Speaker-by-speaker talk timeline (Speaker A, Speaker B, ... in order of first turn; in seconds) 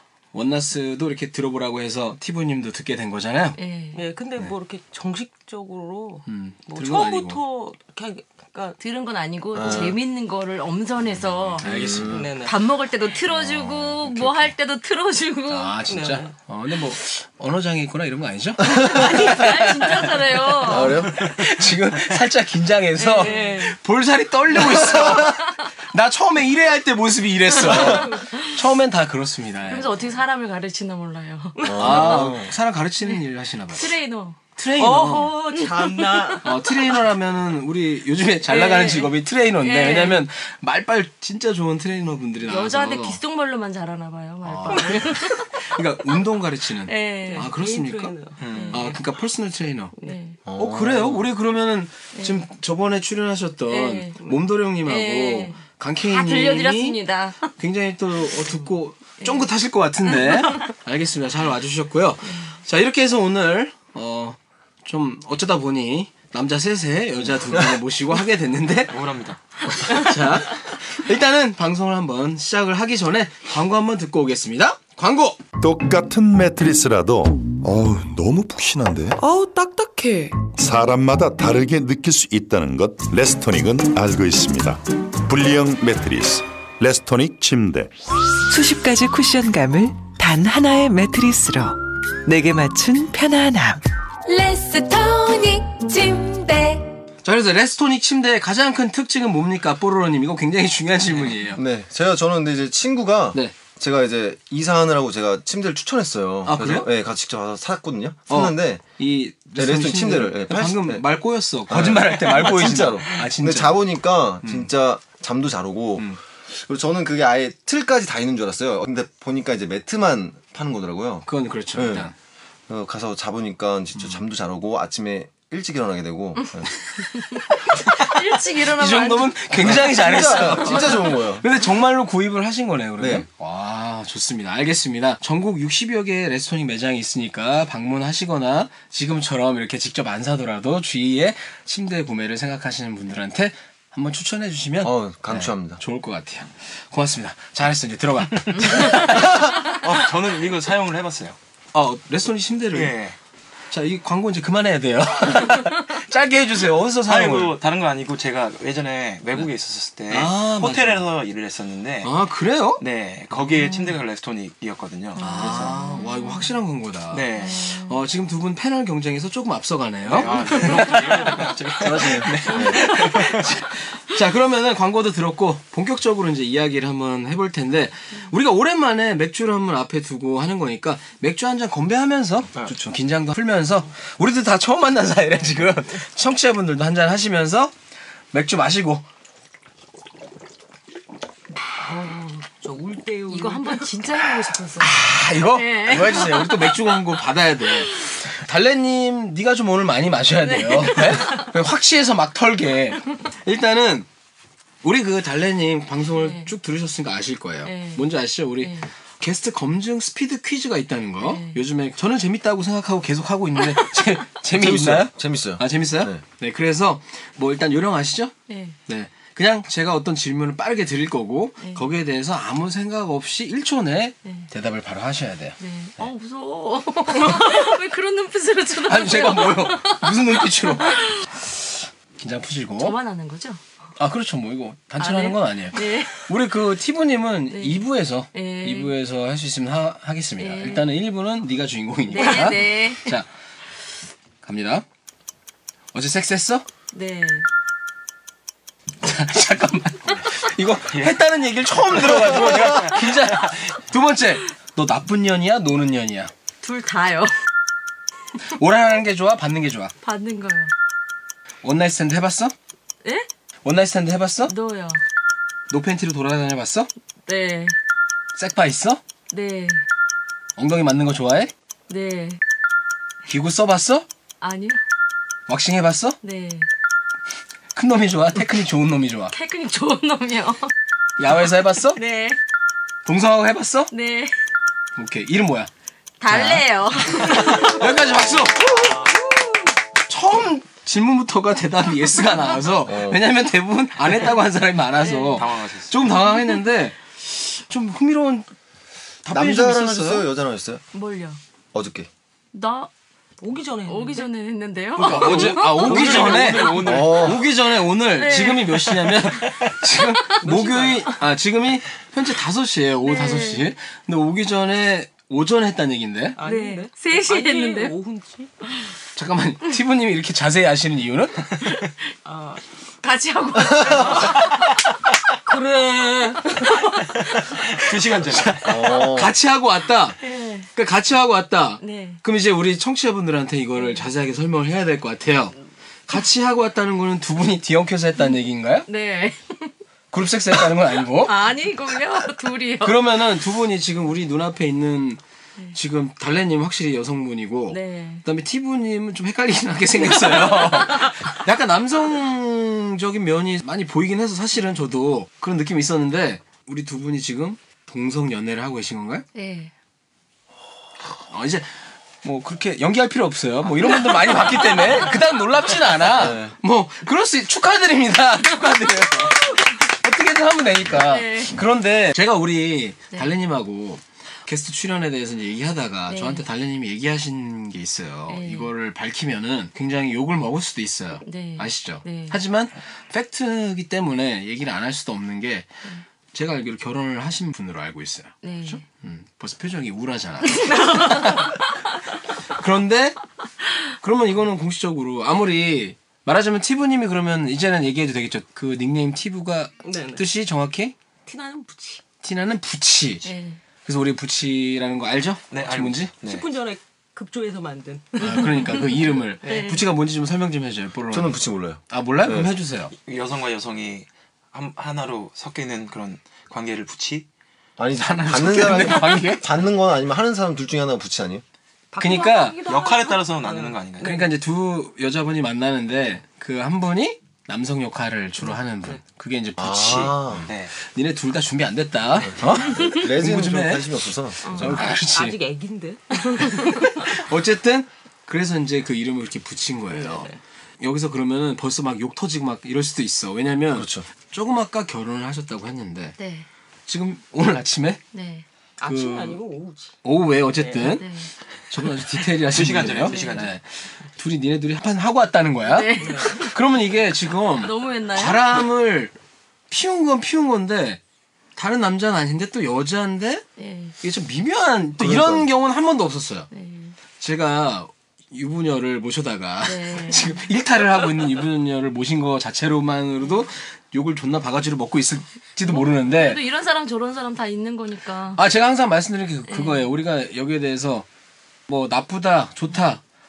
Speaker A: 0.3-3.6, 6.3-7.4, 11.6-12.3, 15.5-29.9, 31.8-34.0, 34.6-35.4, 36.4-43.2, 44.4-48.2, 48.7-49.9, 50.5-57.0, 57.6-69.0, 69.8-75.4, 97.2-101.6, 106.5-106.9, 108.3-113.8, 114.4-114.7, 121.3-122.1, 127.7-149.6, 151.7-153.0, 153.7-157.6, 160.1-161.1, 162.0-162.8, 165.2-187.8, 188.3-189.0, 194.8-204.1, 204.8-218.3, 218.9-226.1, 227.1-227.7, 228.8-233.0, 234.0-243.3, 244.4-244.8, 245.9-246.6, 249.0-256.3, 258.5-259.9, 261.6-262.5, 263.6-264.5, 265.7-266.9, 268.4-269.0, 270.6-271.5, 273.3-274.1, 275.5-276.2, 277.8-279.3, 281.2-282.0, 283.1-283.9, 285.0-285.7, 286.3-289.1, 290.1-298.5, 299.2-300.3, 305.0-316.4, 319.2-321.4, 328.3-330.2, 330.7-335.6, 336.1-338.9, 340.1-341.5, 342.8-345.2, 345.7-359.2, 361.3-385.7, 386.3-391.6, 392.6-393.2, 394.0-400.9, 402.2-403.3, 403.9-406.1, 408.2-412.9, 418.0-419.4, 422.0-422.6, 424.0-435.4, 437.0-446.2, 446.9-448.0, 448.8-449.4, 450.0-451.1, 451.7-459.1, 459.7-461.0, 461.6-463.4, 464.0-466.5, 467.2-476.4, 478.4-481.1, 481.7-483.0
Speaker B: 3.6-4.0, 8.8-11.7, 12.4-15.8, 18.7-21.1, 23.0-23.7, 25.1-25.6, 27.6-28.5, 29.7-31.7, 33.7-34.4, 35.6-36.2, 38.5-40.3, 42.5-46.2, 46.9-47.5, 50.0-50.4, 52.1-52.5, 53.7-54.2, 54.8-57.5, 59.2-59.5, 60.0-60.7, 126.4-131.1, 165.2-166.6, 167.4-168.0, 172.5-173.1, 191.8-192.3, 193.3-196.9, 200.4-201.5, 206.1-206.5, 207.6-208.1, 208.6-208.9, 211.2-211.6, 213.6-214.2, 218.5-218.8, 225.6-231.3, 232.8-233.6, 235.0-236.3, 237.5-238.9, 240.4-240.9, 242.1-243.2, 246.9-247.5, 256.6-257.3, 260.0-260.7, 264.5-265.0, 267.3-267.8, 269.3-269.8, 271.9-272.4, 274.4-274.8, 276.2-276.7, 279.3-280.7, 281.9-282.4, 283.9-284.4, 286.2-289.7, 295.0-295.5, 300.9-301.4, 302.5-302.9, 303.9-306.8, 308.1-309.3, 309.9-310.4, 313.1-313.7, 316.4-317.9, 321.6-321.9, 323.0-324.7, 326.4-327.1, 330.2-330.7, 331.8-332.2, 333.8-334.1, 338.9-339.7, 341.2-343.0, 347.7-348.2, 350.0-351.3, 359.4-359.7, 364.0-364.6, 368.9-369.7, 371.0-371.6, 376.1-376.4, 378.3-378.7, 381.3-382.4, 388.4-388.8, 390.5-391.7, 403.2-403.6, 408.3-408.9, 409.4-409.8, 434.4-434.7, 436.3-436.9, 446.2-446.5, 448.1-448.4, 450.8-451.3, 455.6-456.6, 457.6-458.6, 463.6-463.9, 466.5-466.9, 469.6-470.4, 475.6-478.4, 479.5-479.9
Speaker C: 3.9-8.8, 12.1-12.6, 15.9-16.4, 23.2-23.7, 27.7-28.2, 31.6-31.9, 34.8-36.5, 44.7-45.1, 47.2-49.0, 191.8-194.0, 303.4-304.3, 305.0-306.7, 310.4-311.2, 316.4-318.5, 322.2-322.6, 323.9-324.4, 325.5-326.8, 399.8-400.2, 401.3-402.0, 406.2-408.6, 409.4-409.8, 421.9-424.3, 434.6-437.1, 439.9-440.4, 448.8-450.0, 450.6-450.9, 456.0-456.4
Speaker D: 9.6-10.0, 11.6-12.3, 13.3-14.5, 20.6-21.2, 31.6-32.5, 50.5-51.3, 101.5-108.8, 109.5-111.0, 111.7-122.1, 122.7-126.7, 129.6-131.4, 133.0-133.3, 144.8-145.8, 171.9-172.9, 214.5-216.2, 292.9-293.2, 299.3-300.8, 301.7-302.1, 306.8-307.4, 328.6-329.4, 366.1-366.6, 411.1-412.5, 417.8-421.4, 429.6-430.5, 432.2-434.9, 443.7-444.1, 465.0-465.5
Speaker E: 21.3-21.6, 35.6-36.4, 48.4-48.9, 68.9-69.9, 148.5-151.4, 152.7-153.2, 157.1-162.1, 162.8-165.8, 167.1-167.7, 170.1-173.5, 250.9-251.2, 251.8-253.5, 295.4-296.0, 305.2-307.5, 327.5-328.8, 405.5-406.5, 413.0-417.3, 422.6-424.3, 429.6-430.7, 452.4-453.6
Speaker F: 75.6-79.2, 80.5-87.9
Speaker G: 79.2-80.5, 88.5-96.9